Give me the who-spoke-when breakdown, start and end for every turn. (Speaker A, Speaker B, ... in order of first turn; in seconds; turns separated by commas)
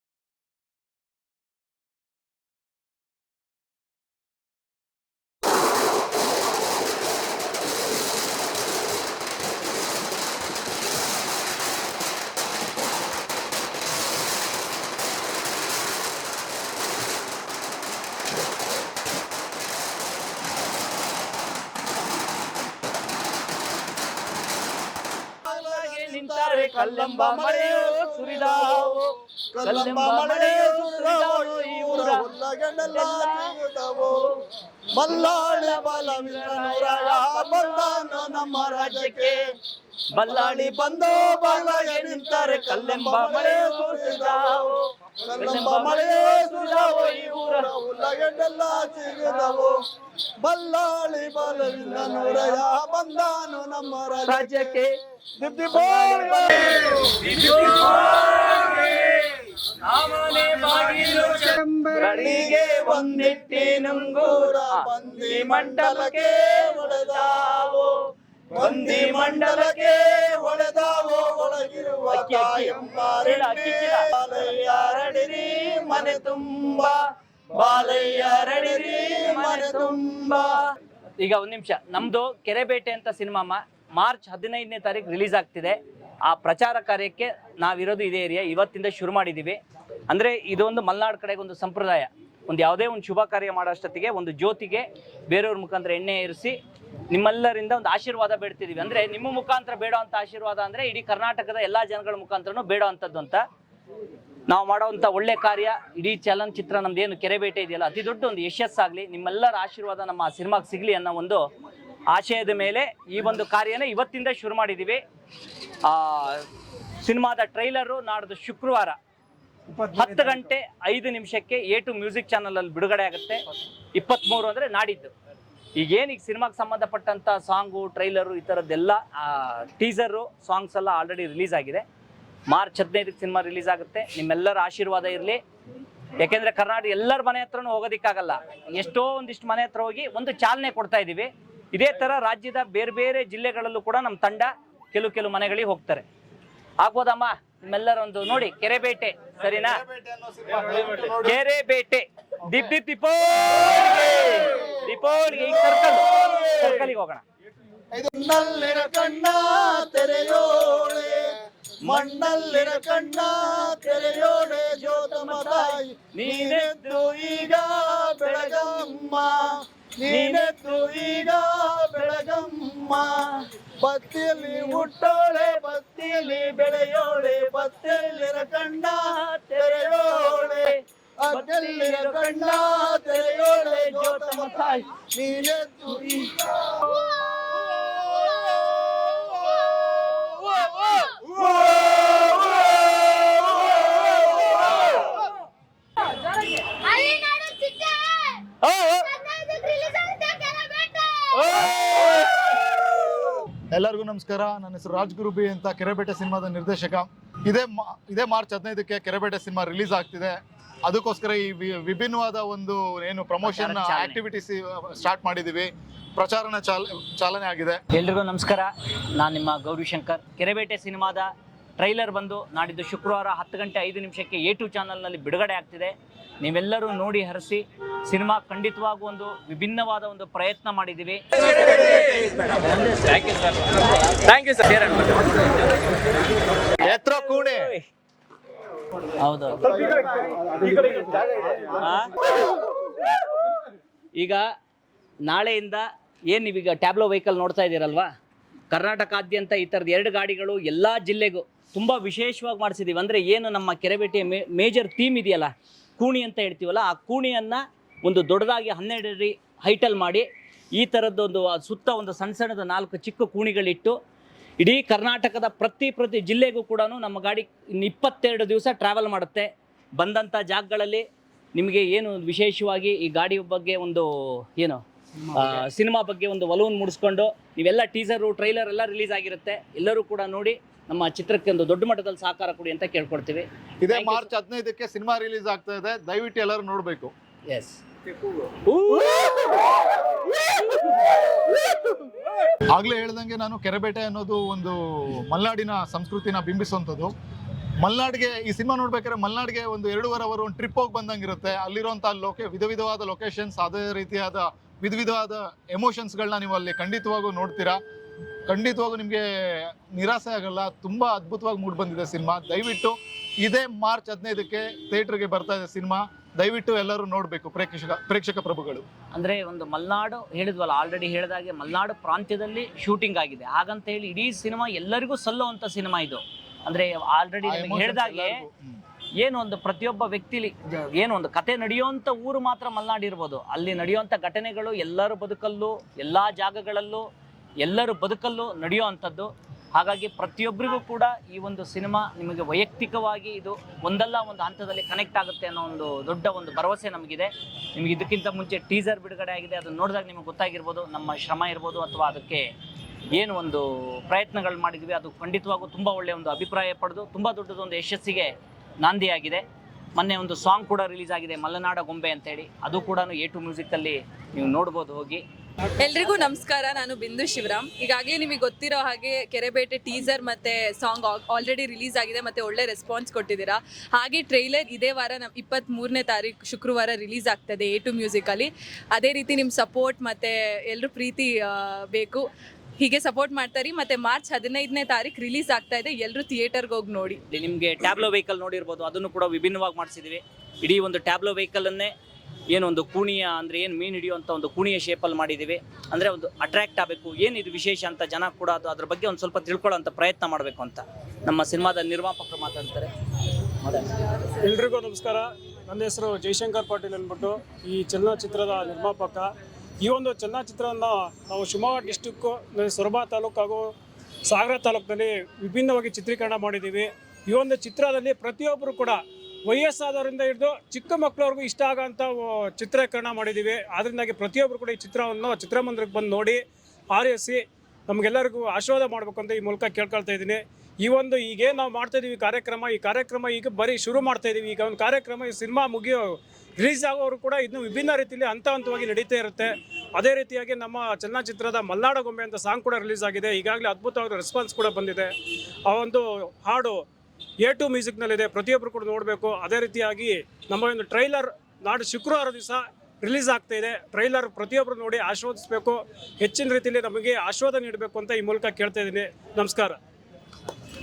Speaker A: 25.4-32.2, Speaker B: 25.5-28.9, Speaker B: 29.5-34.3, Speaker A: 32.8-33.6, Speaker B: 34.9-39.4, Speaker A: 35.2-39.4, Speaker A: 40.1-44.8, Speaker B: 40.2-44.7, Speaker B: 45.2-49.8, Speaker A: 45.3-47.7, Speaker B: 50.4-54.7, Speaker A: 54.2-54.9, Speaker B: 55.4-57.1, Speaker A: 55.8-68.0, Speaker B: 62.1-67.3, Speaker A: 68.5-70.0, Speaker B: 68.5-76.7, Speaker A: 72.1-74.0, Speaker A: 75.1-77.0, Speaker B: 77.5-80.4, Speaker A: 77.5-80.6, Speaker A: 81.2-89.6, Speaker A: 90.1-96.5, Speaker A: 97.1-103.4, Speaker A: 104.5-111.4, Speaker A: 112.1-115.0, Speaker A: 115.8-116.5, Speaker A: 117.0-119.0, Speaker A: 119.8-123.4, Speaker A: 123.9-125.1, Speaker A: 125.8-131.8, Speaker A: 132.5-135.4, Speaker A: 136.2-146.0, Speaker A: 146.8-149.8, Speaker C: 149.6-151.4, Speaker A: 151.2-157.2, Speaker C: 156.0-156.4, Speaker B: 157.9-169.4, Speaker A: 162.5-169.3, Speaker B: 170.0-173.0, Speaker A: 170.1-171.0, Speaker B: 173.8-178.4, Speaker A: 174.4-184.9, Speaker B: 179.6-180.7, Speaker B: 181.2-184.6, Speaker B: 185.1-186.9, Speaker B: 187.8-189.3, Speaker D: 196.7-198.4, Speaker A: 198.6-199.2, Speaker D: 199.1-201.3, Speaker A: 201.4-202.4, Speaker C: 203.7-217.8, Speaker A: 213.4-214.2, Speaker A: 217.9-235.3, Speaker C: 236.8-237.8, Speaker A: 239.2-239.8, Speaker A: 241.7-242.1, Speaker A: 244.2-244.4, Speaker A: 245.3-248.1, Speaker A: 248.7-264.0, Speaker A: 264.6-284.3, Speaker C: 283.8-287.1, Speaker A: 287.5-287.8, Speaker A: 288.6-289.5, Speaker C: 292.7-297.1, Speaker C: 297.8-307.8, Speaker C: 308.4-318.8, Speaker A: 319.1-328.4, Speaker C: 327.4-328.8, Speaker A: 329.2-337.1, Speaker A: 337.6-352.5, Speaker A: 353.1-359.4, Speaker A: 359.9-365.2, Speaker E: 365.8-382.2, Speaker E: 382.8-387.2, Speaker A: 387.3-391.9, Speaker A: 392.5-402.9, Speaker A: 403.6-403.9, Speaker F: 404.4-409.3, Speaker F: 409.8-413.7, Speaker F: 414.2-445.1, Speaker F: 445.6-446.8, Speaker F: 447.4-459.8